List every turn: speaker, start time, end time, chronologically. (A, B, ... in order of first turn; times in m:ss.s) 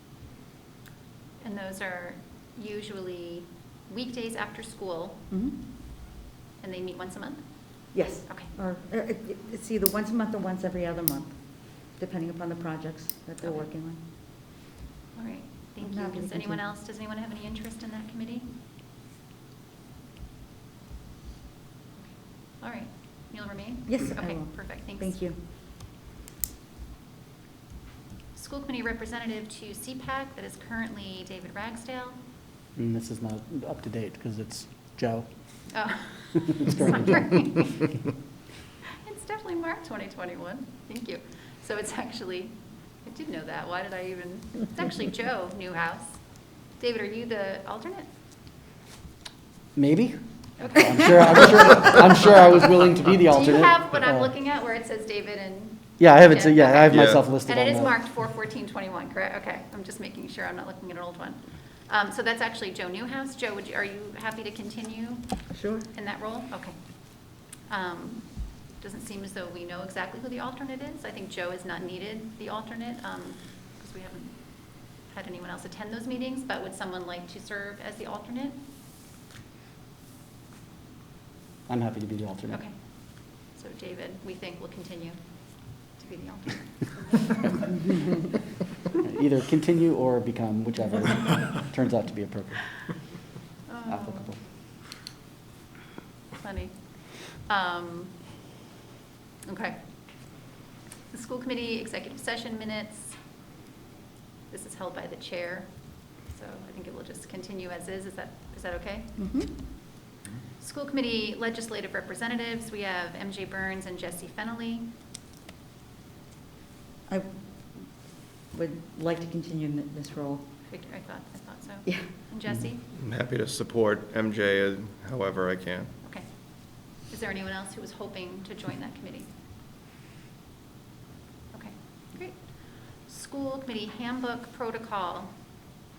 0:01.4-0:05.2 A
0:05.3-0:05.6 B
0:06.6-0:08.5 A
0:07.9-0:14.0 B
0:13.4-0:13.7 A
0:15.2-0:18.5 A
0:15.8-0:16.6 B
0:22.0-0:25.2 A
0:23.9-0:25.4 B
0:28.3-0:32.2 A
0:32.8-0:35.3 C
0:35.7-0:37.9 A
0:36.4-0:37.8 C
0:38.8-0:46.2 A
0:46.8-0:48.1 A
0:49.8-0:54.3 C
0:50.6-0:51.5 A
0:53.3-1:18.6 A
0:56.0-0:58.0 C
0:56.9-0:57.2 D
1:05.5-1:05.9 B
1:21.7-1:22.6 C
1:22.5-1:27.7 A
1:29.0-1:33.2 C
1:33.7-1:34.3 A
1:33.9-1:34.4 C
1:36.4-1:38.2 A
1:39.4-1:39.8 A
1:41.1-1:43.2 A
1:44.5-1:49.4 A
1:49.2-1:49.5 B
1:50.6-1:54.9 A
1:57.1-2:00.5 B
2:00.7-2:02.9 A
2:02.9-2:05.9 D
2:06.0-2:09.3 A
2:11.5-2:15.3 A